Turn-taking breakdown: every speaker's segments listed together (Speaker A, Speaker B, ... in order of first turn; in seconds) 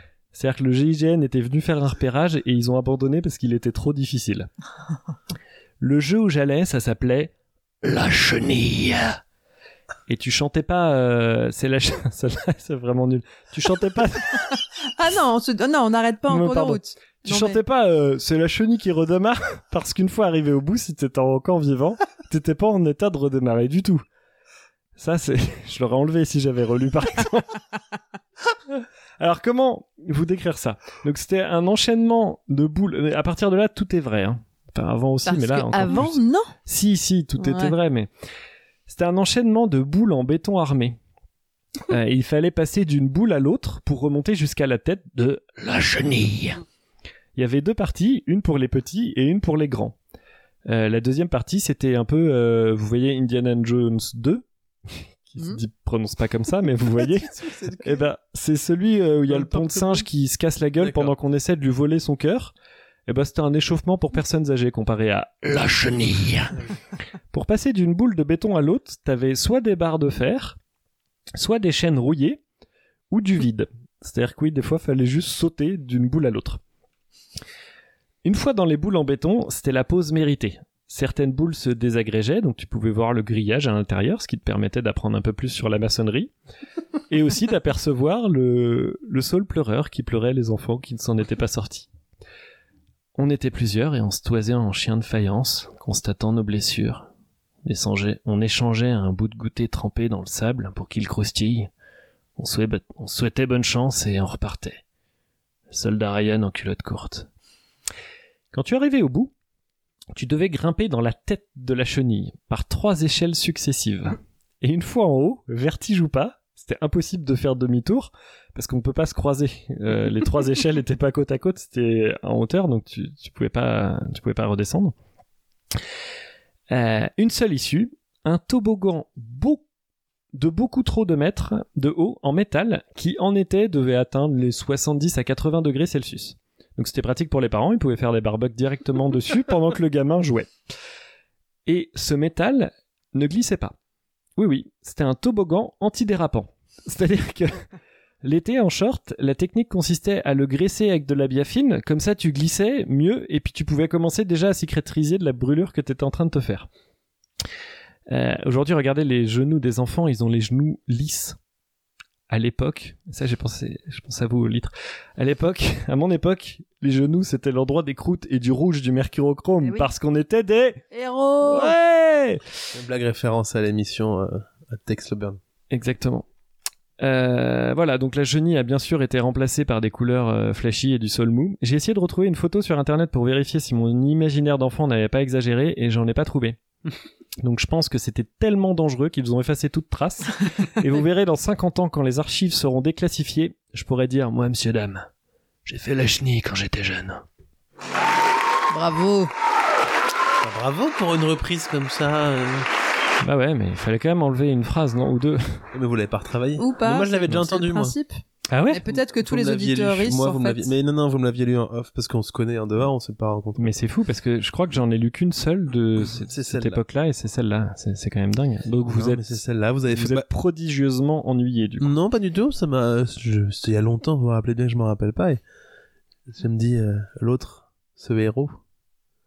Speaker A: 0.3-4.5, 5.8-9.2, 10.1-14.5, 16.3-24.0, 25.0-27.6, 28.7-38.1, 38.9-41.0, 41.9-46.6, 47.4-50.0, 50.7-62.5, 63.1-66.6, 67.3-70.6, 71.3-72.4, 73.1-76.6, 78.2-86.3, 87.1-91.9, 93.2-97.1, 97.6-101.7, 102.4-104.8, 105.7-107.3, 108.5-109.3, 110.1-125.0, 126.7-129.6, 130.3-140.5, 141.7-143.8, 144.4-147.7, 148.2-156.7, 158.1-161.4, 162.3-170.8, 171.4-172.4, 175.7-176.3, 177.0-186.6, 187.4-195.1, 195.7-197.2, 203.2-205.7, 208.5-208.8, 213.6-219.4, 219.9-221.9
Speaker B: 15.0-17.6, 35.2-36.5, 37.4-37.8, 169.6-169.9, 170.9-171.8, 198.7-199.3, 206.6-208.2, 208.7-210.7
Speaker C: 56.9-58.1, 59.3-60.0, 60.8-61.1, 172.7-175.4, 200.4-202.7, 205.7-207.9, 208.9-213.7, 216.2-216.8, 218.8-220.3, 221.8-225.4, 226.3-228.6